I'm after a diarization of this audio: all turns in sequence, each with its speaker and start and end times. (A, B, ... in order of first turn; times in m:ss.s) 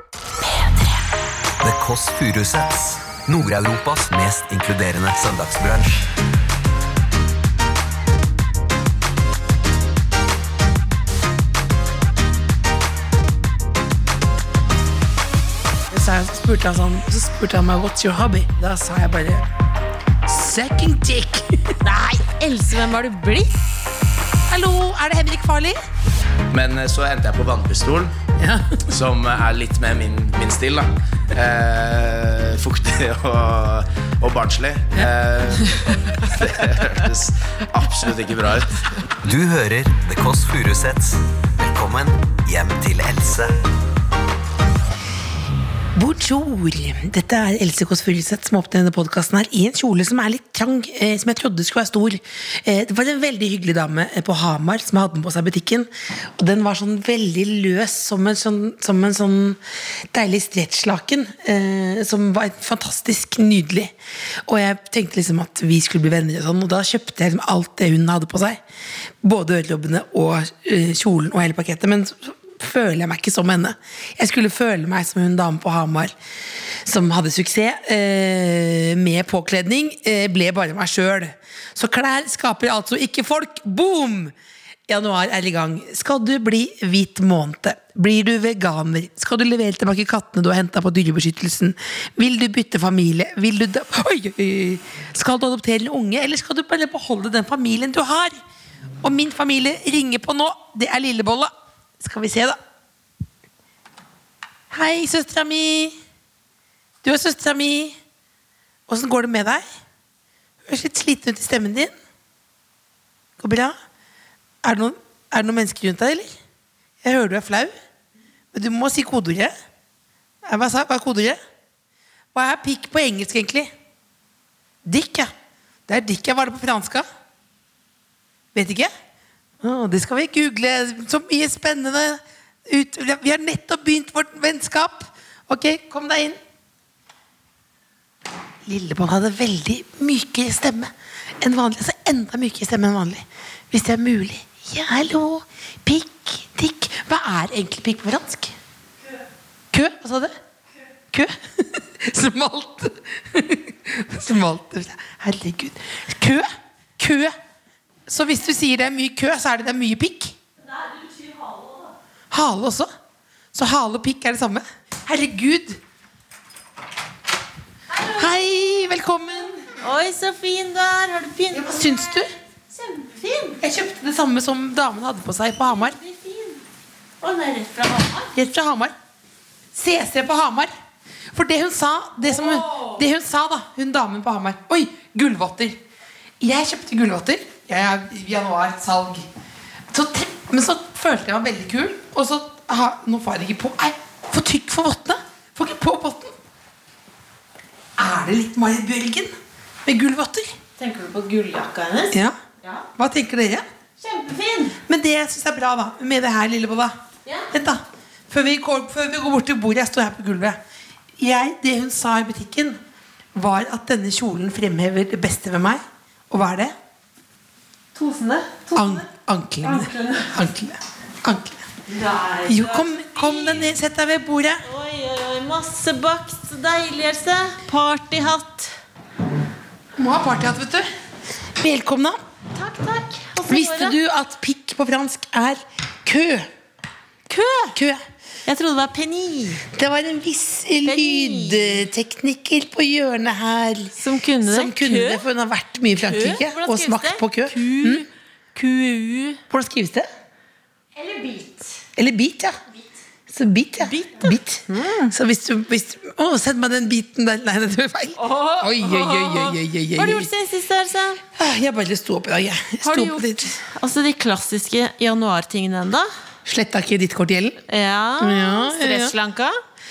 0:01.6-0:06.1 A
0:15.9-0:19.5 B
0:20.2-0:21.8 B
0:21.8-0:23.6 C
0:24.5-0:25.8 B
0:26.5-0:28.1 D
0:28.4-0:28.9 B
0:28.9-0:38.8 D
0:39.2-0:43.6 A
0:46.0-0:59.6 B
1:00.1-1:03.9 B
1:04.5-1:08.6 B
1:09.2-1:16.1 B
1:16.8-1:24.3 B
1:24.9-1:38.4 B
1:39.0-1:42.6 B
1:44.7-1:46.0 B
1:47.0-1:48.0 B
1:48.9-1:49.6 B
1:50.6-1:51.9 B
1:53.4-1:53.8 B
1:54.6-1:56.3 B
1:57.0-1:57.7 B
1:58.5-1:59.5 B
2:00.4-2:01.4 B
2:02.3-2:03.7 B
2:04.8-2:05.3 B
2:05.9-2:07.1 B
2:08.5-2:08.9 B
2:09.6-2:16.4 B
2:18.7-2:28.6 B
2:29.7-2:30.4 B
2:31.1-2:36.5 B
2:37.0-2:37.3 B
2:38.1-2:40.4 B
2:40.8-2:41.9 C
2:42.3-2:42.9 B
2:43.5-2:45.8 B
2:47.9-2:48.3 C
2:48.1-2:49.6 B
2:49.8-2:53.6 C
2:51.5-2:52.3 B
2:53.6-2:56.0 B
2:55.6-2:56.6 C
2:57.2-2:58.3 C
2:58.4-2:58.9 B
2:59.7-3:00.7 B
3:01.3-3:05.8 B
3:02.3-3:03.0 C
3:06.4-3:09.3 B
3:09.9-3:16.3 B
3:18.0-3:19.3 B
3:19.8-3:20.5 B
3:20.8-3:22.9 C
3:22.1-3:22.4 B
3:23.0-3:23.6 B
3:24.0-3:24.8 C
3:24.8-3:26.9 B
3:27.5-3:30.6 B
3:31.2-3:32.8 B
3:33.4-3:36.7 B
3:38.0-3:39.1 C
3:38.7-3:41.7 B
3:39.6-3:40.3 C
3:41.9-3:43.7 C
3:42.5-3:44.6 B
3:44.6-3:48.7 C
3:50.0-3:50.9 B
3:51.6-3:52.2 B
3:52.6-3:54.0 C
3:53.5-3:56.5 B
3:57.3-3:57.8 C
3:57.7-3:58.0 B
3:58.5-3:59.6 C
3:59.7-4:08.0 B
4:00.8-4:01.9 C
4:04.0-4:05.2 C
4:06.0-4:09.4 C
4:09.5-4:10.1 B
4:11.0-4:11.7 C
4:12.0-4:12.6 B
4:13.3-4:20.3 B
4:13.8-4:15.2 C
4:18.2-4:21.2 C
4:21.4-4:23.6 B
4:22.8-4:26.1 C
4:26.5-4:27.6 B
4:27.7-4:29.6 C
4:28.2-4:29.2 B